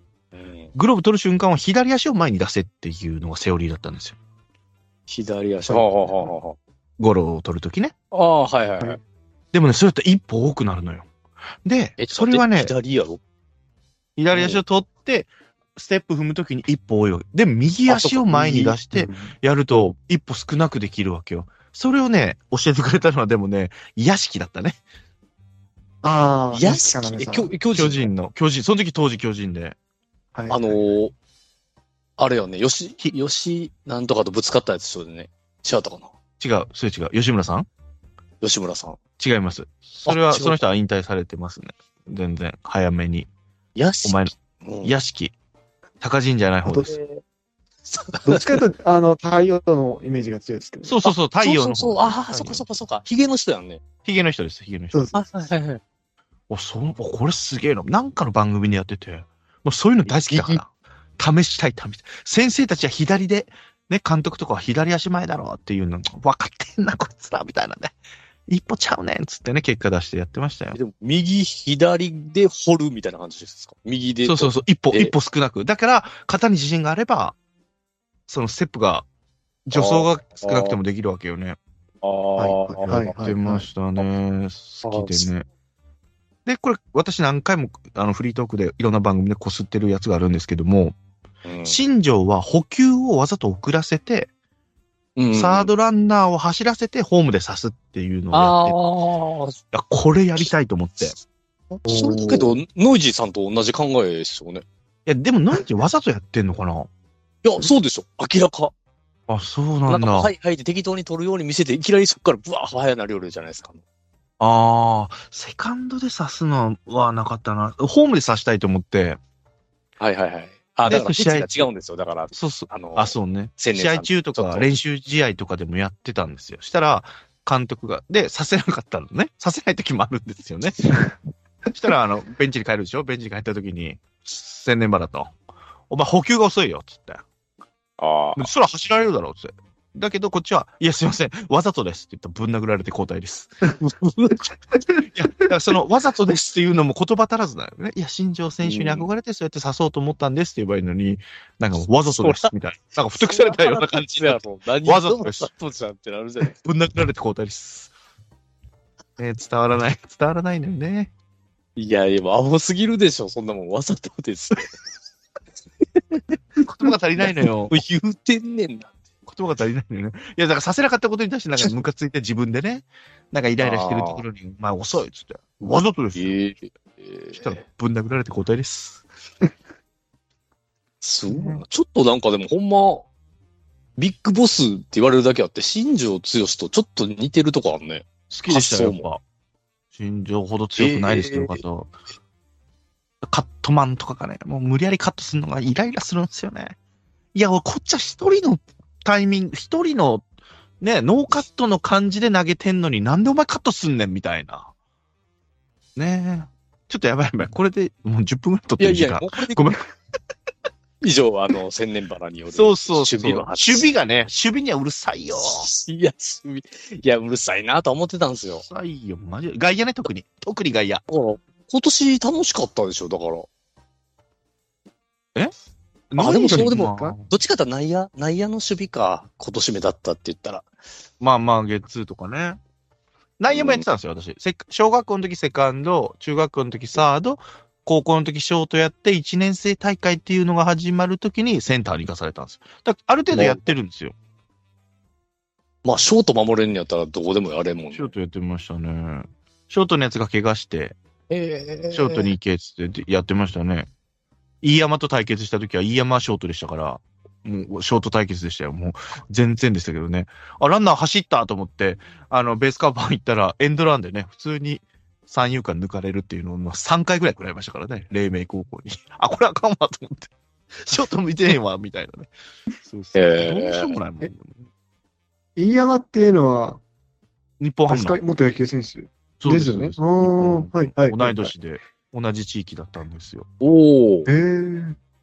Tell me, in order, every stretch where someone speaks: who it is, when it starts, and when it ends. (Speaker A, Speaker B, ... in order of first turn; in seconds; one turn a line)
Speaker A: 0.3-0.7
Speaker B: 0.7-4.2
Speaker A: 5.1-6.6
Speaker B: 7.0-7.9
Speaker A: 8.1-9.0
Speaker B: 9.5-11.1
Speaker B: 11.6-12.7
Speaker A: 12.0-13.2
Speaker B: 14.2-24.8
Speaker A: 14.3-14.6
Speaker A: 17.9-18.8
Speaker C: 18.9-19.3
Speaker C: 26.0-27.5
Speaker A: 26.5-28.1
Speaker B: 27.7-29.8
Speaker C: 30.3-30.8
Speaker A: 30.5-31.1
Speaker A: 32.2-36.1
Speaker B: 36.4-37.7
Speaker A: 38.4-39.0
Speaker B: 39.2-43.3
Speaker A: 40.0-40.6
Speaker A: 43.8-45.0
Speaker B: 44.0-44.3
Speaker B: 44.8-45.3
Speaker B: 46.0-47.0
Speaker A: 46.7-47.2
Speaker A: 47.9-48.6
Speaker C: 48.2-51.0
Speaker B: 50.8-52.6
Speaker A: 51.0-53.8
Speaker B: 54.0-55.1
Speaker C: 54.9-55.2
Speaker A: 55.1-55.8
Speaker B: 56.5-67.9
Speaker A: 60.0-60.6
Speaker B: 68.5-70.8
Speaker A: 70.7-75.1
Speaker B: 74.2-77.3
Speaker B: 78.3-79.0
Speaker B: 79.7-81.6
Speaker A: 79.7-80.8
Speaker A: 82.0-83.2
Speaker C: 82.4-83.7
Speaker B: 82.9-85.5
Speaker A: 84.8-85.3
Speaker B: 86.5-91.0
Speaker A: 91.4-91.8
Speaker B: 91.7-94.3
Speaker A: 95.2-95.7
Speaker B: 95.3-98.8
Speaker A: 98.3-99.6
Speaker B: 99.7-101.2
Speaker A: 101.8-104.6
Speaker C: 101.8-102.5
Speaker B: 105.0-106.9
Speaker A: 107.4-108.7
Speaker B: 109.3-110.3
Speaker A: 109.9-113.8
Speaker B: 114.4-119.2
Speaker A: 120.0-124.7
Speaker B: 120.8-121.6
Speaker B: 122.3-130.9
Speaker B: 131.7-135.3
Speaker B: 135.9-137.2
Speaker A: 138.0-138.5
Speaker B: 138.4-143.8
Speaker A: 143.8-144.4
Speaker B: 145.0-155.5
Speaker A: 148.6-149.1
Speaker A: 152.1-152.5
Speaker A: 153.2-156.6
Speaker B: 156.5-157.9
Speaker B: 159.2-161.1
Speaker A: 161.8-164.7
Speaker B: 166.6-167.8
Speaker A: 167.2-168.9
Speaker B: 169.3-176.3
Speaker A: 173.6-174.2
Speaker A: 176.1-177.6
Speaker B: 177.3-179.0
Speaker A: 181.0-183.1
Speaker C: 181.3-181.6
Speaker A: 184.0-189.1
Speaker B: 188.3-189.2
Speaker B: 189.9-191.9
Speaker A: 190.8-191.6
Speaker B: 193.2-196.8
Speaker B: 197.3-200.2
Speaker B: 200.8-204.7
Speaker B: 205.9-209.8
Speaker A: 208.8-209.7
Speaker A: 211.0-213.9
Speaker B: 212.5-215.7
Speaker A: 215.4-218.6
Speaker B: 218.5-221.0
Speaker A: 221.1-223.5
Speaker B: 226.1-227.2
Speaker A: 226.2-230.7
Speaker B: 231.2-232.6
Speaker B: 233.4-244.1
Speaker A: 233.5-233.8
Speaker A: 243.3-243.7
Speaker A: 245.8-248.1
Speaker B: 247.9-250.9
Speaker A: 251.3-252.3
Speaker B: 251.9-253.9
Speaker B: 254.6-270.3
Speaker B: 270.8-272.3
Speaker B: 272.8-274.6
Speaker A: 273.1-273.9
Speaker C: 275.6-276.8
Speaker B: 277.6-278.2
Speaker C: 277.9-281.5
Speaker B: 279.4-283.5
Speaker A: 283.6-284.3
Speaker C: 284.3-285.0